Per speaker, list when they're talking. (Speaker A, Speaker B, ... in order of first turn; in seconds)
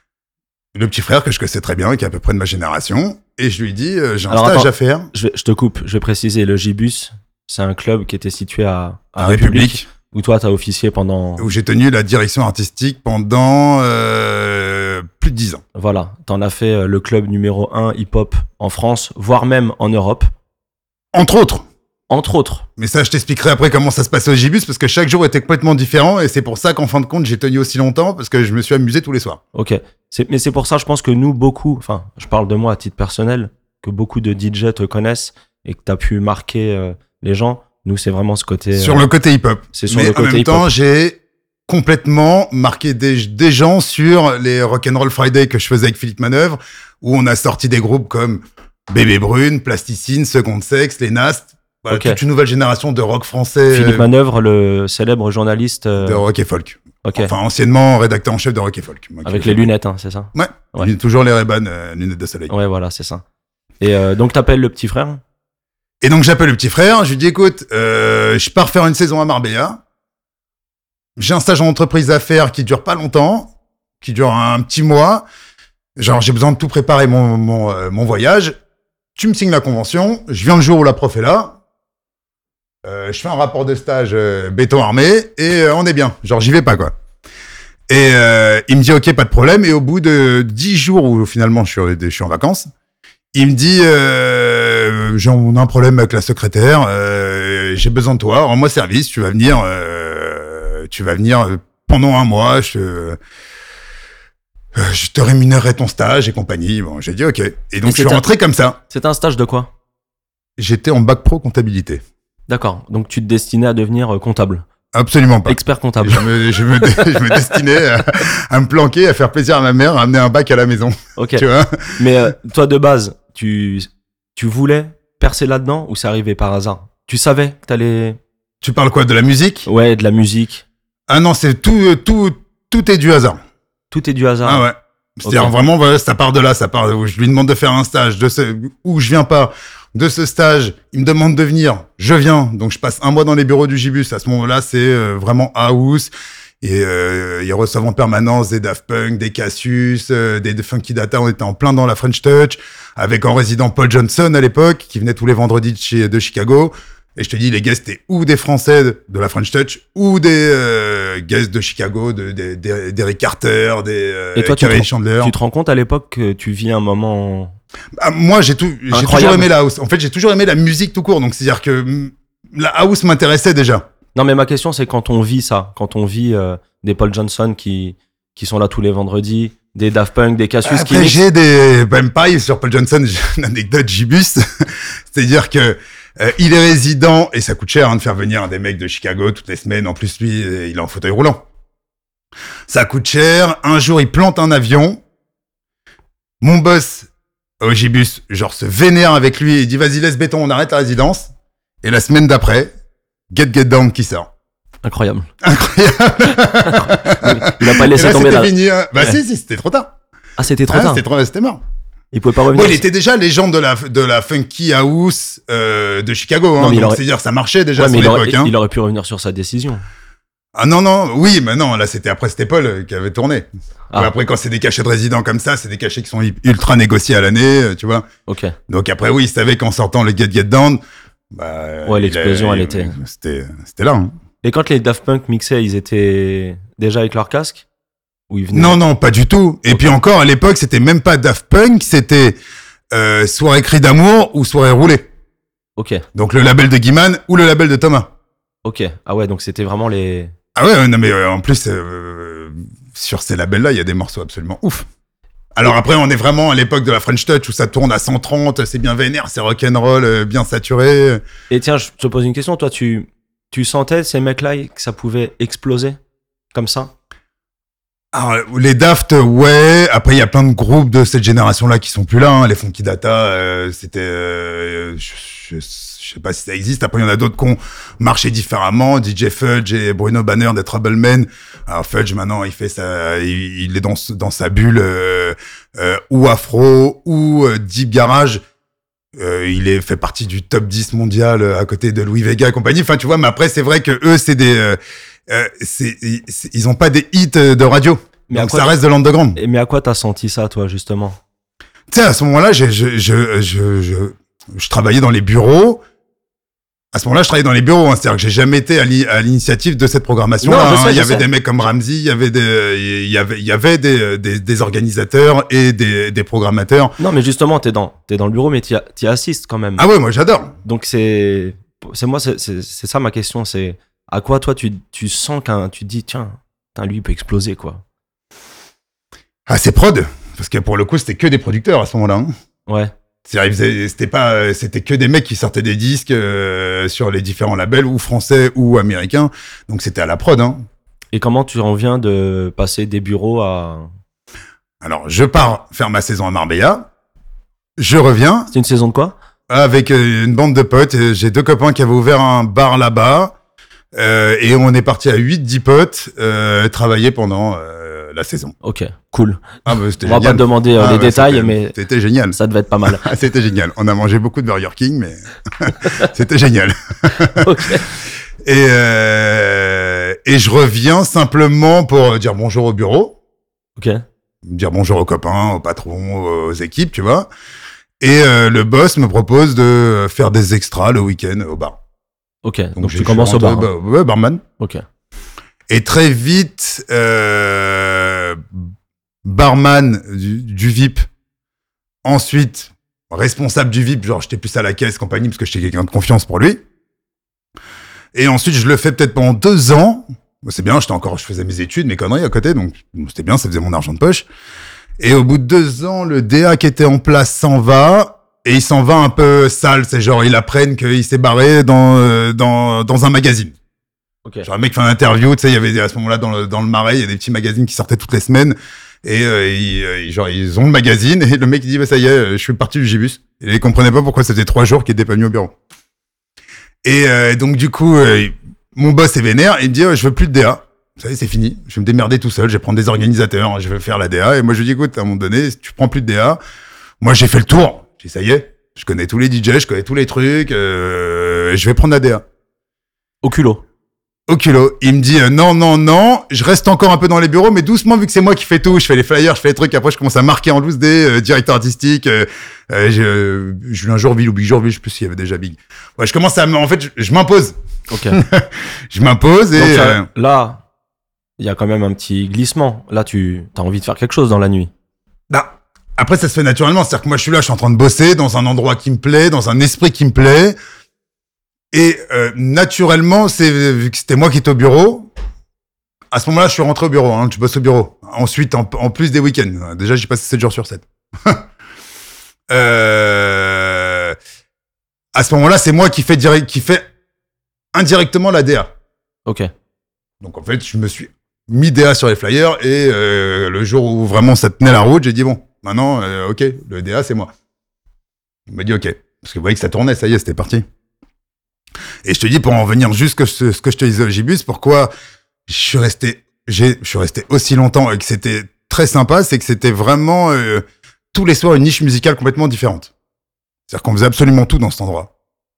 Speaker A: 0.7-5.1, 9.2-9.8, 11.4-15.6, 21.1-21.6, 22.8-29.4, 38.8-54.1, 56.0-59.7, 60.3-62.5, 66.0-69.8, 71.2-75.3, 76.0-78.6, 79.2-81.6, 82.8-86.9, 87.9-92.7, 93.3-103.2, 104.7-108.8, 110.6-112.0, 114.9-122.0, 128.6-129.7, 131.1-133.4, 134.4-146.1, 146.6-165.3, 168.0-173.8, 180.6-191.4, 192.7-195.0, 196.4-197.1, 197.6-201.3, 201.8-202.7, 203.3-204.3, 205.4-209.9, 210.7-211.6, 212.5-218.5, 220.6-228.1, 228.7-230.8, 231.3-234.1, 238.5-242.4, 242.9-245.1, 246.1-248.1, 250.6-254.9, 255.5-261.2, 268.1-288.4, 289.1-299.4, 301.9-305.8, 306.9-316.9, 319.8-320.5, 329.5-332.3, 333.2-340.6, 344.8-346.9, 347.8-348.5, 349.5-353.3, 353.9-358.5, 359.6-367.5, 368.4-373.1, 374.4-377.3, 378.0-381.8, 382.8-384.4, 385.7-388.6, 389.2-391.1, 392.0-396.6, 398.1-404.2, 405.0-413.5, 414.4-425.5, 426.8-436.4, 437.0-442.2, 444.3-457.6, 458.1-460.0, 465.3-470.6, 471.7-475.1, 476.1-481.4, 482.5-484.2, 485.1-486.9, 487.7-488.7, 490.2-497.3, 498.5-500.6, 502.0-504.9, 505.5-512.9, 513.7-515.1
Speaker B: 4.3-11.4, 15.7-20.3, 22.1-22.6, 29.5-39.1, 39.7-40.7, 51.9-52.2, 53.7-56.2, 57.0-57.3, 59.2-60.9, 62.5-63.2, 63.8-65.2, 107.8-108.2, 108.9-109.7, 112.5-114.6, 115.5-117.5, 121.2-128.2, 129.7-130.6, 133.9-134.6, 135.2-135.5, 164.3-167.6, 168.9-169.5, 174.1-181.2, 204.8-205.3, 206.6-209.2, 210.4-211.0, 212.1-212.8, 216.6-217.0, 217.8-219.8, 228.3-228.6, 231.8-232.9, 234.4-237.7, 238.3-238.8, 245.8-246.0, 248.6-250.3, 261.5-266.0, 266.5-266.9, 298.3-298.7, 299.3-301.2, 310.4-311.3, 317.0-319.8, 320.6-327.8, 332.7-332.9, 341.1-343.9, 348.5-349.1, 358.6-361.7, 362.3-363.1, 367.2-367.9, 373.8-374.0, 382.4-383.7, 384.6-384.8, 443.2-443.6, 457.9-458.2, 459.6-460.6, 461.4-464.7, 489.2-489.5